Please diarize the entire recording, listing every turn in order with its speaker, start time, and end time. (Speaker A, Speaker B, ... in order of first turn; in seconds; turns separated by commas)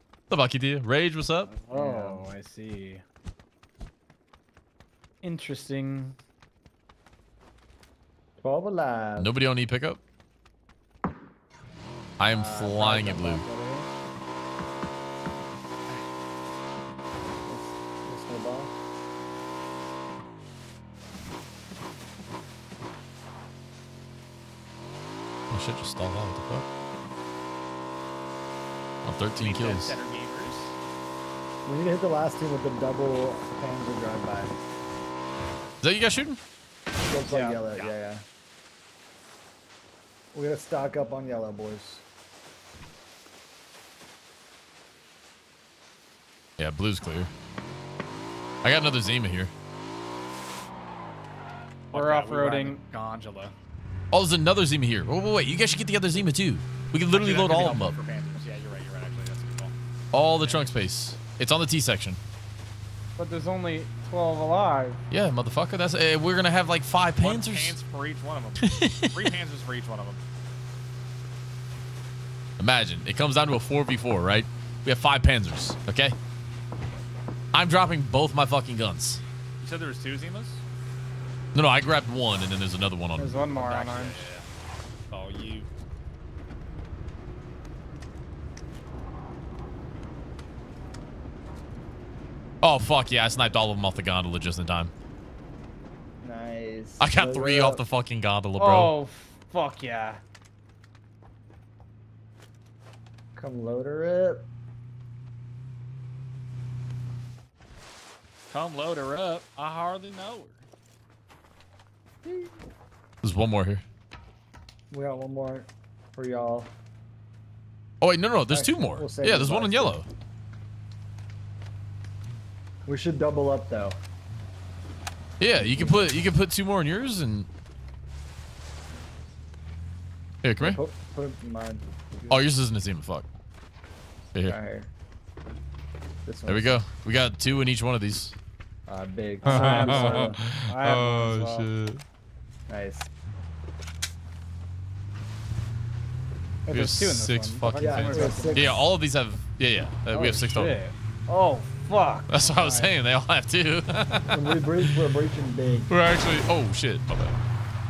Speaker A: 0.3-1.5, Speaker B: 1.5-3.0, Speaker C: 1.7-2.2, Speaker B: 5.2-6.2, Speaker C: 8.4-9.3, Speaker A: 9.2-10.0, Speaker A: 12.2-13.4, Speaker C: 12.3-13.9, Speaker C: 17.5-18.7, Speaker A: 25.5-26.6, Speaker A: 29.0-30.0, Speaker D: 29.3-30.8, Speaker C: 31.6-34.5, Speaker A: 35.8-36.4, Speaker C: 37.1-38.2, Speaker B: 37.3-37.6, Speaker D: 37.7-37.9, Speaker C: 40.3-42.0, Speaker A: 46.6-47.3, Speaker A: 48.6-49.5, Speaker D: 51.9-53.5, Speaker B: 51.9-52.8, Speaker A: 54.1-57.9, Speaker D: 57.1-59.7, Speaker A: 60.1-62.2, Speaker D: 60.4-60.7, Speaker B: 63.2-65.0, Speaker A: 65.1-67.8, Speaker D: 67.2-70.2, Speaker A: 68.6-69.2, Speaker A: 72.6-76.2, Speaker A: 77.5-79.2, Speaker D: 79.6-80.6, Speaker A: 81.5-83.5, Speaker B: 83.2-84.2, Speaker D: 83.5-84.5, Speaker D: 85.1-85.7, Speaker A: 92.6-94.9, Speaker C: 96.2-97.8, Speaker A: 97.0-98.9, Speaker B: 98.6-100.2, Speaker C: 103.3-104.5, Speaker D: 108.5-110.6, Speaker C: 112.2-112.5, Speaker A: 113.2-113.8, Speaker C: 114.9-116.7, Speaker A: 118.0-120.1, Speaker C: 118.5-120.0, Speaker C: 122.8-124.0, Speaker A: 125.4-127.5, Speaker C: 125.5-126.2, Speaker A: 130.4-130.8, Speaker C: 130.6-132.5, Speaker A: 132.3-133.3, Speaker C: 134.4-134.9, Speaker C: 136.2-136.8, Speaker A: 136.5-138.4, Speaker C: 138.9-140.4, Speaker B: 139.4-141.7, Speaker A: 139.4-142.0, Speaker C: 142.7-143.1, Speaker B: 146.7-148.8, Speaker A: 146.7-150.8, Speaker C: 147.8-148.8, Speaker B: 150.1-152.3, Speaker A: 152.3-154.6, Speaker C: 152.6-152.9, Speaker C: 154.3-155.9, Speaker A: 155.9-157.4